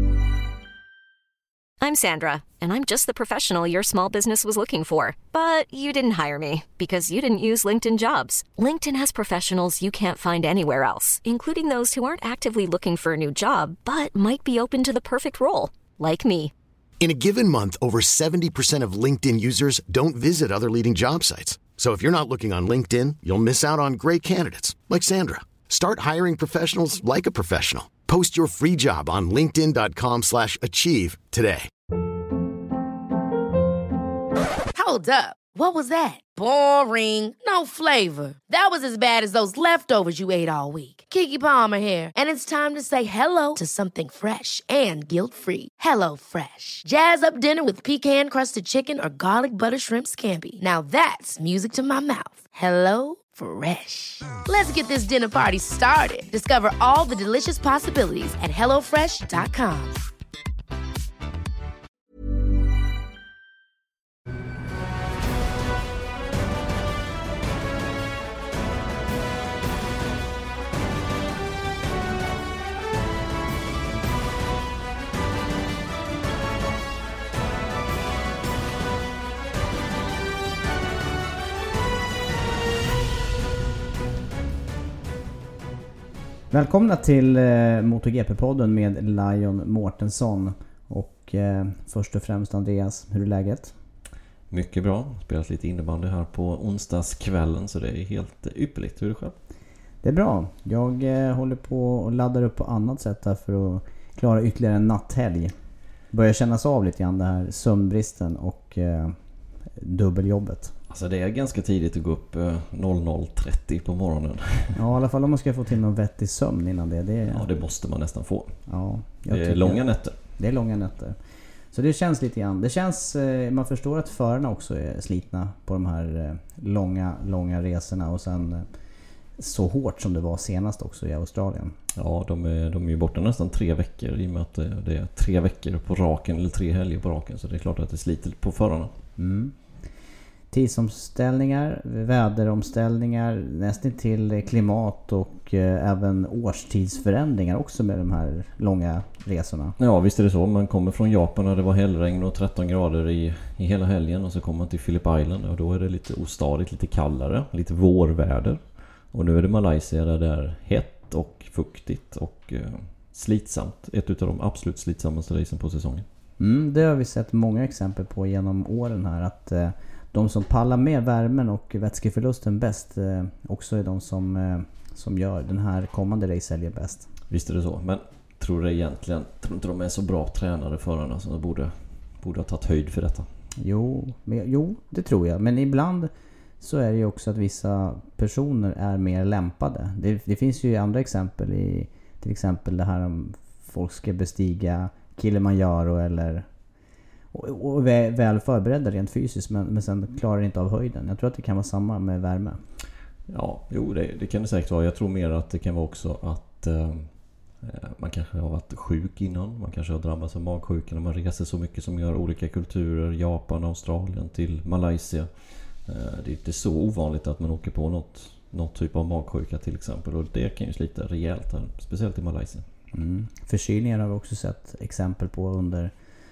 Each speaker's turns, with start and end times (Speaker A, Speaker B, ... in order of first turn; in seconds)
Speaker A: 1.8-16.5
Speaker B: 17.0-31.7
Speaker C: 34.7-60.0
Speaker D: 86.5-93.7, 100.0-105.5, 106.1-109.2, 109.8-110.8, 114.8-117.5, 118.7-121.2, 121.7-128.7, 129.4-131.8, 139.2-139.6, 140.5-149.8, 166.4-177.1, 183.6-196.5, 197.3-202.6, 222.9-225.9
Speaker E: 94.5-99.4, 110.9-114.9, 117.2-118.7, 119.3-120.2, 131.9-138.9, 149.8-166.1, 177.3-183.3, 203.3-222.7